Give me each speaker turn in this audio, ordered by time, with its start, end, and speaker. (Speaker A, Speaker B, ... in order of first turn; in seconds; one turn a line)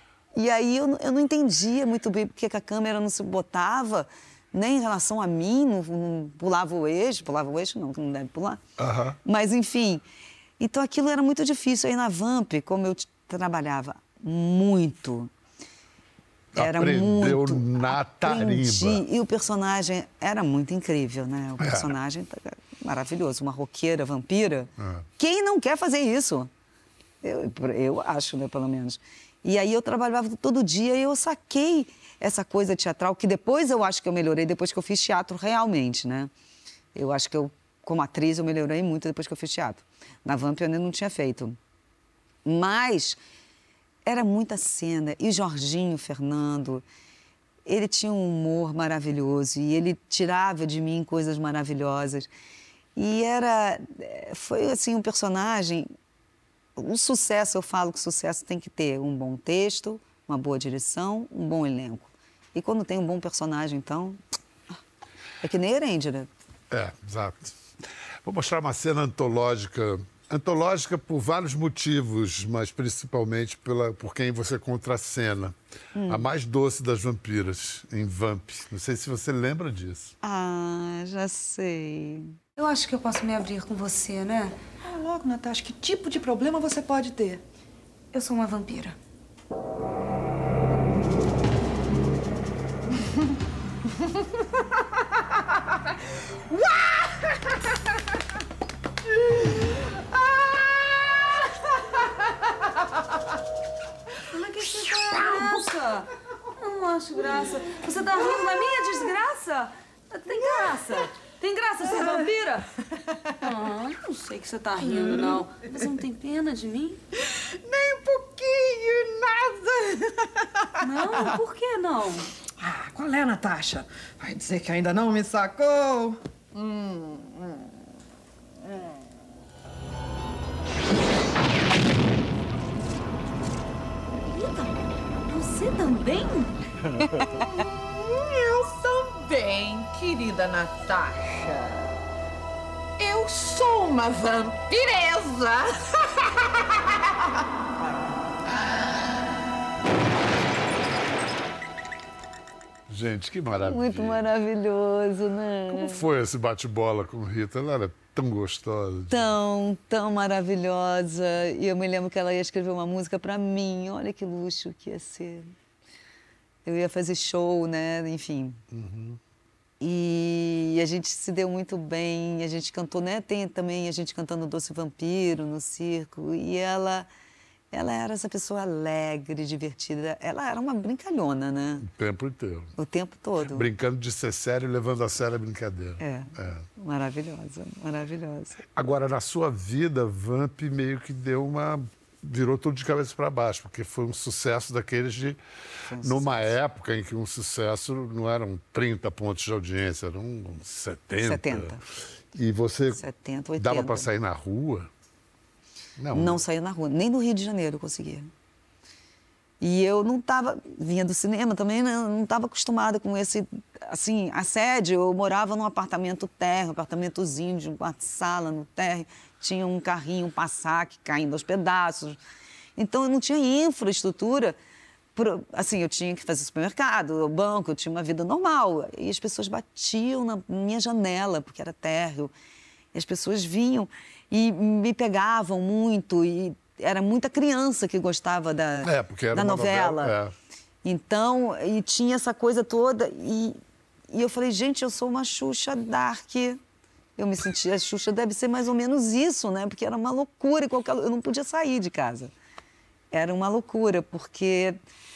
Speaker A: 0.3-8.6
Speaker B: 8.8-9.2
Speaker A: 9.2-10.0
Speaker A: 10.6-15.3
Speaker B: 16.5-19.0
Speaker A: 16.6-26.5
Speaker B: 21.6-21.9
Speaker B: 24.8-25.1
Speaker A: 27.2-36.3
Speaker A: 36.9-41.6
Speaker A: 42.4-43.2
Speaker A: 44.0-46.8
Speaker A: 47.6-52.3
Speaker A: 53.0-55.9
Speaker A: 56.8-64.2
Speaker A: 65.4-66.3
Speaker B: 66.7-67.5
Speaker B: 68.2-80.1
Speaker A: 75.9-76.2
Speaker A: 80.2-84.6
Speaker C: 84.8-87.4
Speaker C: 96.5-97.3
Speaker A: 104.5-105.8
Speaker C: 105.0-105.6
Speaker A: 107.1-109.2
Speaker A: 110.3-111.0
Speaker C: 110.3-111.0
Speaker A: 111.6-112.5
Speaker C: 111.9-112.3
Speaker D: 113.4-115.4
Speaker C: 114.8-115.4
Speaker A: 116.4-116.9
Speaker C: 117.2-120.7
Speaker D: 120.8-122.2
Speaker C: 122.6-127.6
Speaker C: 137.3-141.9
Speaker C: 143.0-146.6
Speaker B: 152.9-154.2
Speaker A: 153.6-156.0
Speaker B: 155.7-159.3
Speaker A: 159.1-165.5
Speaker A: 166.6-168.6
Speaker B: 168.7-169.2
Speaker A: 169.8-177.1
Speaker A: 177.7-181.8
Speaker B: 181.8-182.7
Speaker A: 182.8-183.7
Speaker B: 183.4-186.7
Speaker A: 186.0-188.6
Speaker B: 188.7-195.4
Speaker A: 195.9-196.5
Speaker B: 196.0-201.8
Speaker A: 201.2-201.8
Speaker B: 202.3-203.0
Speaker A: 202.9-204.1
Speaker B: 203.6-204.9
Speaker B: 206.0-206.4
Speaker A: 206.1-208.3
Speaker A: 209.6-222.2
Speaker A: 222.8-224.6
Speaker A: 225.2-232.3
Speaker A: 232.9-240.1
Speaker B: 238.8-240.3
Speaker A: 240.8-243.6
Speaker A: 244.1-246.6
Speaker A: 247.2-252.3
Speaker A: 253.1-254.8